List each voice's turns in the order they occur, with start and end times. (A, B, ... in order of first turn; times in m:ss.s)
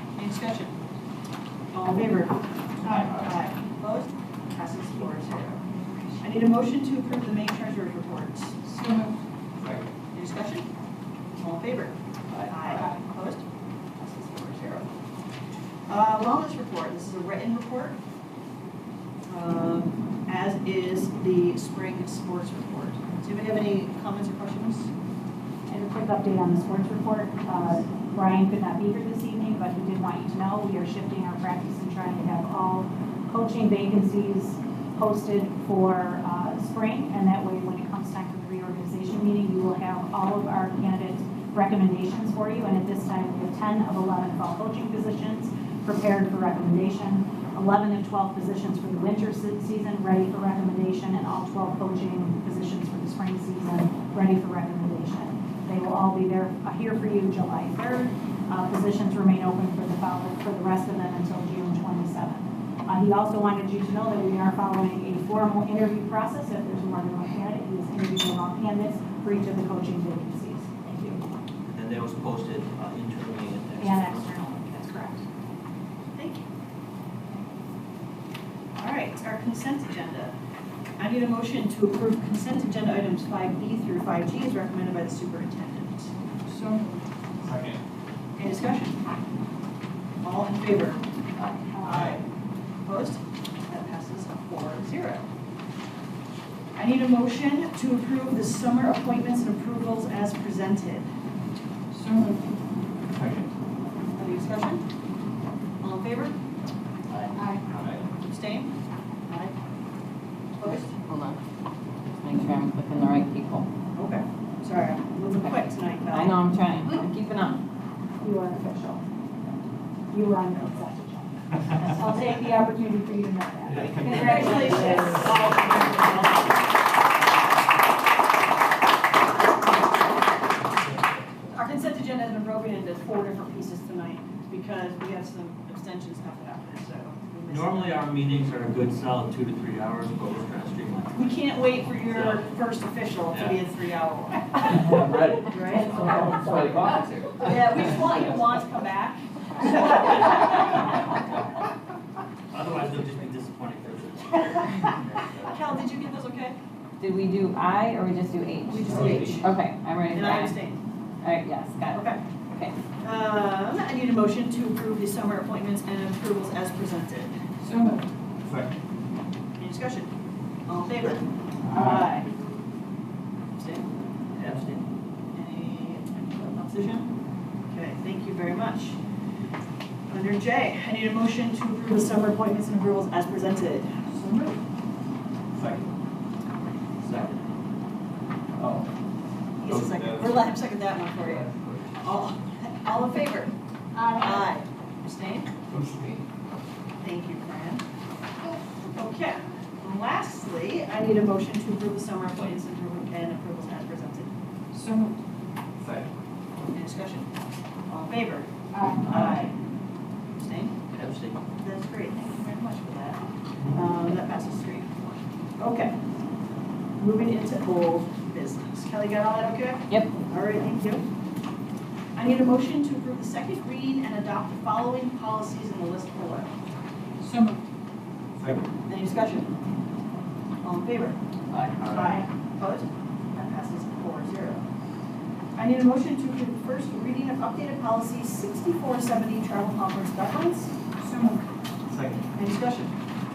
0:00.2-0:00.7 A
0:01.7-0:05.6 A
0:02.9-0:03.3 B
0:06.2-0:08.6 A
0:08.6-0:09.1 C
0:09.6-0:09.9 B
0:10.1-0:10.7 A
0:11.4-0:12.0 A
0:12.5-0:13.4 A
0:14.0-0:14.9 A
0:15.9-0:18.0 A
0:19.3-0:24.9 A
0:25.7-1:11.2 D
1:11.7-1:14.8 E
1:13.8-1:15.2 D
1:16.2-1:16.4 A
1:18.8-1:20.3 A
1:21.0-1:26.1 A
1:26.4-1:27.0 C
1:27.4-1:27.8 B
1:28.4-1:29.0 A
1:30.2-1:31.0 A
1:31.7-1:32.1 D
1:31.8-1:32.2 A
1:32.8-1:35.2 A
1:36.7-1:41.1 A
1:41.9-1:42.5 C
1:43.1-1:43.5 B
1:44.2-1:44.8 A
1:45.8-1:46.4 A
1:47.1-1:48.0 E
1:47.4-1:47.6 C
1:47.8-1:48.0 B
1:48.2-1:48.7 A
1:49.3-1:49.5 A
1:50.6-1:50.9 A
1:51.1-1:51.4 F
1:52.2-1:53.7 F
1:53.9-1:56.4 A
1:55.3-1:57.6 F
1:58.2-1:59.0 D
2:00.1-2:05.5 D
2:03.7-2:04.6 B
2:03.8-2:06.6 A
2:04.0-2:05.3 F
2:11.4-2:18.1 A
2:17.5-2:21.3 E
2:21.1-2:24.9 A
2:22.0-2:22.5 E
2:23.3-2:23.6 E
2:24.6-2:27.9 E
2:25.5-2:26.2 A
2:27.4-2:30.6 A
2:29.9-2:30.8 E
2:32.5-2:35.7 E
2:35.4-2:36.6 A
2:37.0-2:40.7 F
2:38.6-2:39.5 A
2:39.0-2:39.3 E
2:39.0-2:39.3 B
2:40.1-2:40.8 A
2:41.2-2:42.7 F
2:41.9-2:42.2 A
2:43.0-2:47.3 A
2:47.6-2:48.0 C
2:48.4-2:48.8 B
2:49.6-2:50.1 A
2:50.6-2:52.3 A
2:51.7-2:52.0 B
2:53.6-2:53.9 A
2:54.3-2:54.8 E
2:55.3-2:57.1 A
2:57.7-2:59.0 A
3:00.1-3:04.1 A
3:04.1-3:04.6 C
3:05.5-3:05.9 B
3:07.0-3:07.4 E
3:08.6-3:08.9 B
3:09.6-3:13.5 A
3:09.6-3:10.4 B
3:11.5-3:11.8 E
3:13.9-3:14.5 D
3:14.1-3:15.5 A
3:15.7-3:16.2 B
3:17.0-3:17.8 A
3:18.8-3:24.3 A
3:24.7-3:25.1 C
3:25.8-3:26.1 B
3:26.7-3:27.3 A
3:27.9-3:28.5 A
3:29.0-3:29.5 A
3:29.1-3:29.4 E
3:30.4-3:30.8 A
3:30.9-3:31.4 E
3:31.6-3:35.9 A
3:37.0-3:41.0 A
3:42.2-3:46.5 A
3:47.2-3:47.6 C
3:48.4-3:48.6 B
3:48.9-3:49.5 A
3:50.6-3:51.2 A
3:51.5-3:52.2 E
3:51.8-3:54.6 A
3:55.6-4:00.7 A
4:01.0-4:01.4 C
4:01.9-4:02.3 B
4:02.3-4:02.9 A